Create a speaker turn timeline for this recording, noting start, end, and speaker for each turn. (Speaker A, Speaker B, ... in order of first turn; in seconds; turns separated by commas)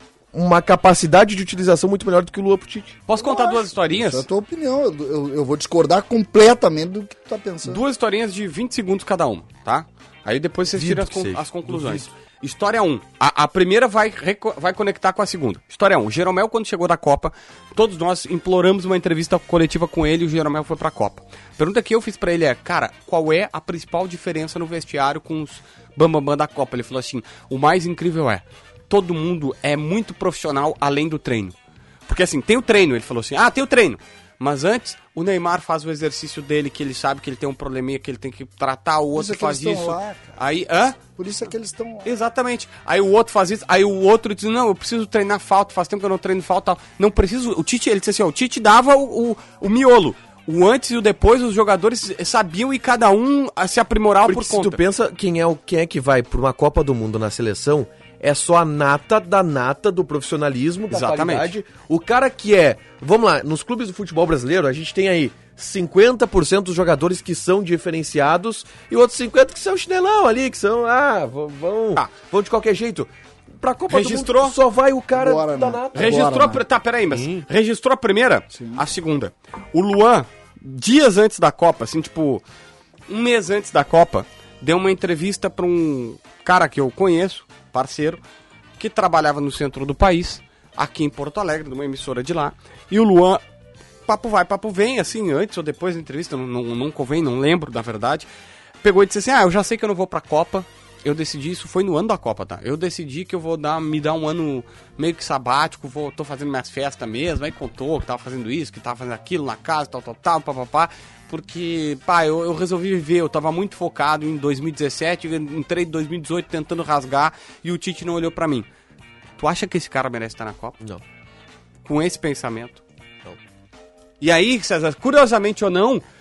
Speaker A: 0.3-3.0, Speaker B: 3.1-4.3, Speaker C: 3.2-7.8, Speaker B: 7.6-31.6, Speaker A: 10.7-12.1, Speaker B: 32.1-41.0, Speaker C: 39.1-40.4, Speaker C: 41.2-42.1, Speaker B: 42.0-54.8, Speaker A: 54.3-76.3, Speaker B: 60.9-61.5, Speaker B: 73.9-74.6, Speaker C: 75.2-76.7, Speaker B: 76.0-82.4, Speaker A: 77.1-77.5, Speaker C: 78.5-78.8, Speaker B: 83.1-88.2, Speaker B: 88.8-93.4, Speaker B: 94.1-98.3, Speaker B: 98.8-118.7, Speaker B: 119.4-120.8, Speaker B: 121.8-122.8, Speaker B: 124.2-126.0